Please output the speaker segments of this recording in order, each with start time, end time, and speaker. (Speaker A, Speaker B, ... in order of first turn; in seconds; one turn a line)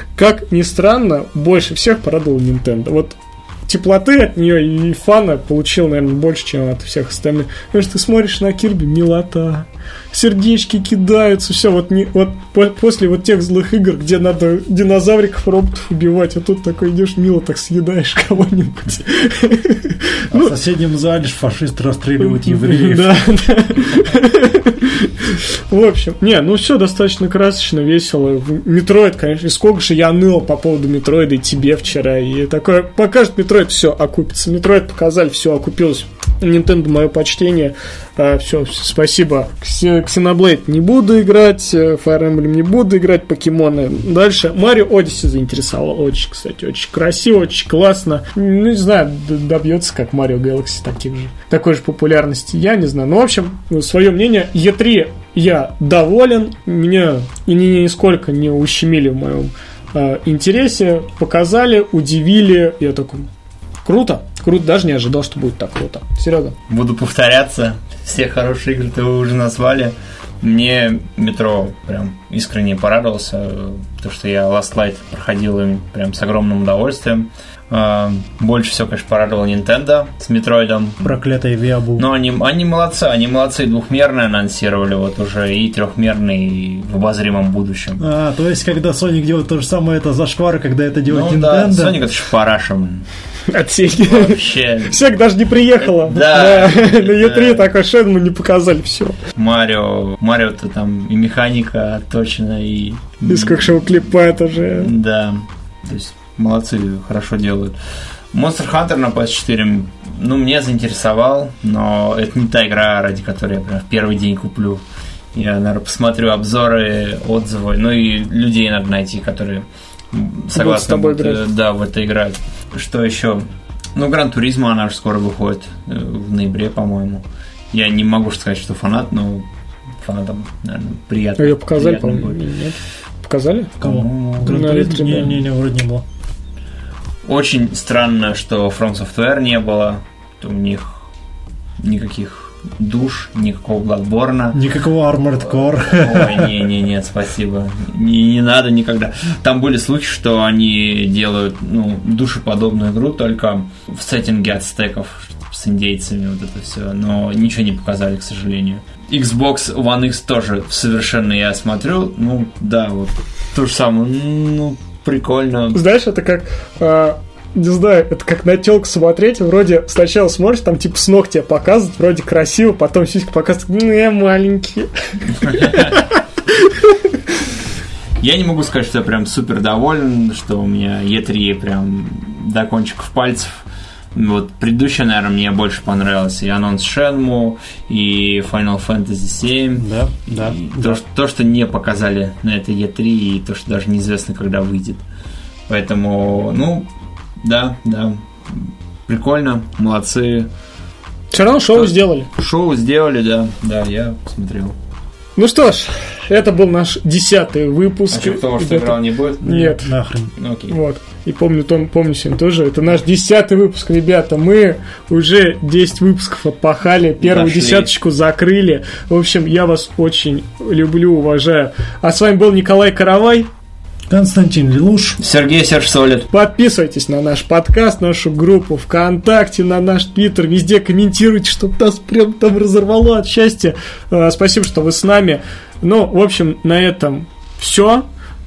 Speaker A: 0.1-20.5
Speaker B: 20.3-23.3
Speaker A: 22.2-63.3
Speaker A: 63.8-66.5
Speaker C: 66.7-81.1
Speaker B: 81.0-82.1
Speaker C: 82.0-88.0
Speaker B: 88.0-92.0
Speaker C: 91.1-93.1
Speaker A: 93.5-99.2
Speaker C: 94.0-95.0
Speaker C: 95.8-97.7
Speaker C: 99.4-107.8
Speaker A: 103.2-104.9
Speaker C: 108.3-129.4
Speaker A: 120.5-121.4
Speaker C: 130.0-132.4
Speaker A: 131.4-133.7
Speaker C: 133.8-135.4
Speaker B: 133.8-136.0
Speaker A: 134.4-135.3
Speaker C: 137.2-141.1
Speaker C: 141.8-144.6
Speaker B: 144.5-146.7
Speaker C: 145.4-165.8
Speaker A: 165.7-177.2
Speaker C: 175.4-176.0
Speaker C: 178.2-183.6
Speaker C: 184.1-195.0
Speaker B: 189.8-191.0
Speaker C: 195.7-196.9
Speaker C: 197.4-200.5
Speaker A: 201.3-202.3
Speaker C: 201.6-204.7
Speaker A: 205.4-209.9
Speaker C: 208.1-209.6
Speaker B: 209.4-210.3
Speaker C: 210.4-210.8
Speaker A: 210.7-223.5
Speaker C: 217.2-217.9
Speaker B: 224.1-225.2
Speaker C: 225.2-226.3
Speaker A: 226.3-238.1